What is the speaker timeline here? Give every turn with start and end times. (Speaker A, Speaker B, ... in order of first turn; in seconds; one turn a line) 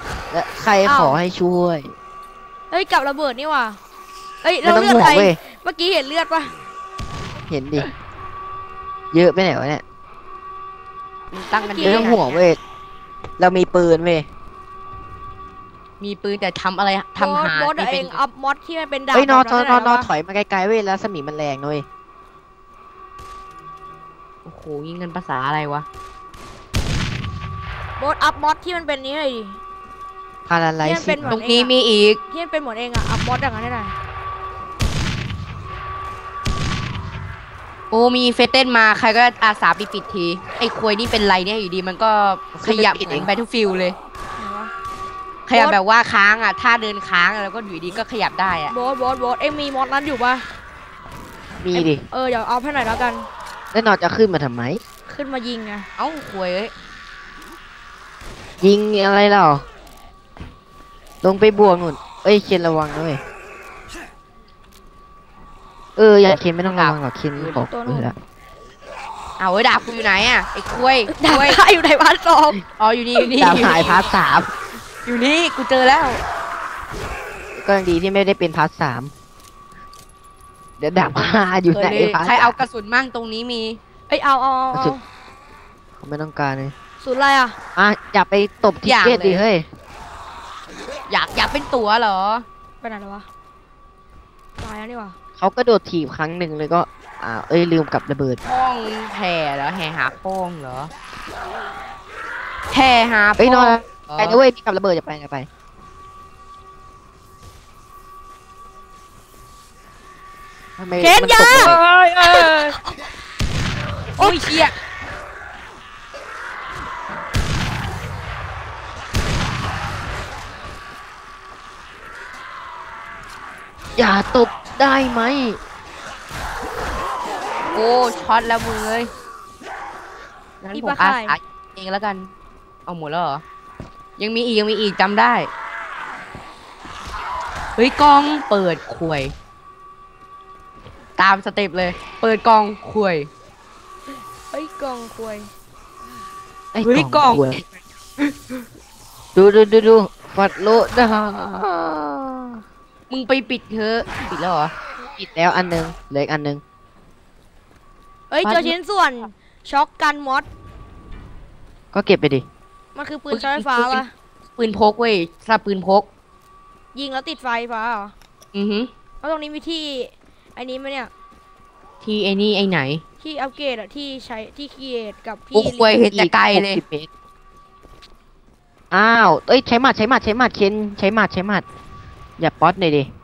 Speaker A: 0.3-1.9
Speaker B: 0.8-1.2
Speaker B: 2.7-3.8
Speaker B: 4.4-6.5
Speaker A: 4.6-5.4
Speaker A: 7.5-7.9
Speaker A: 9.1-9.8
Speaker C: 11.3-12.4
Speaker B: 11.6-12.3
Speaker A: 11.8-12.6
Speaker A: 13.4-14.3
Speaker C: 16.0-18.2
Speaker B: 17.2-20.1
Speaker A: 19.1-21.9
Speaker C: 24.4-25.9
Speaker B: 28.0-29.6
Speaker A: 30.5-31.4
Speaker B: 30.8-31.7
Speaker C: 31.2-32.2
Speaker B: 32.3-33.9
Speaker C: 37.9-44.0
Speaker A: 42.5-43.3
Speaker B: 44.4-44.7
Speaker C: 45.5-48.7
Speaker B: 45.5-45.8
Speaker B: 48.7-50.5
Speaker A: 51.6-52.0
Speaker B: 51.7-53.3
Speaker A: 53.7-54.8
Speaker B: 55.1-55.9
Speaker C: 56.0-56.7
Speaker A: 58.6-59.6
Speaker A: 61.2-63.2
Speaker A: 66.0-68.2
Speaker C: 66.7-67.6
Speaker B: 67.7-68.1
Speaker C: 69.4-71.6
Speaker B: 71.1-72.6
Speaker C: 72.8-74.1
Speaker A: 73.4-74.5
Speaker B: 73.5-74.0
Speaker C: 75.1-76.2
Speaker A: 77.5-79.1
Speaker A: 80.8-82.6
Speaker C: 81.0-83.8
Speaker B: 84.1-85.0
Speaker A: 86.0-86.7
Speaker B: 87.0-87.6
Speaker A: 87.8-89.7
Speaker C: 88.8-89.4
Speaker C: 91.1-92.5
Speaker B: 92.8-93.3
Speaker B: 94.6-95.2
Speaker A: 95.4-98.4
Speaker C: 98.4-100.9
Speaker C: 102.7-104.4
Speaker A: 103.4-105.5
Speaker A: 110.8-111.8
Speaker B: 111.0-112.8
Speaker C: 111.5-112.8
Speaker B: 114.2-114.7
Speaker C: 114.2-114.7
Speaker A: 124.0-125.6
Speaker C: 127.7-129.1
Speaker C: 130.6-132.3
Speaker B: 130.7-131.4
Speaker C: 132.9-133.4
Speaker C: 134.2-135.5
Speaker C: 137.8-139.3
Speaker C: 141.2-143.3
Speaker B: 144.5-145.5
Speaker A: 146.7-147.6
Speaker C: 146.8-147.7
Speaker C: 148.2-148.5
Speaker A: 149.3-152.6
Speaker C: 153.1-154.7
Speaker A: 155.1-156.6
Speaker B: 158.3-160.5
Speaker C: 158.4-158.7
Speaker A: 161.9-162.5
Speaker B: 162.9-164.1
Speaker C: 163.3-164.0
Speaker C: 164.6-166.1
Speaker B: 166.9-168.1
Speaker C: 168.5-168.9
Speaker B: 169.2-171.1
Speaker C: 172.0-173.0
Speaker B: 173.2-175.9
Speaker C: 175.5-176.8
Speaker A: 176.1-177.1
Speaker A: 178.9-181.6
Speaker A: 182.4-183.1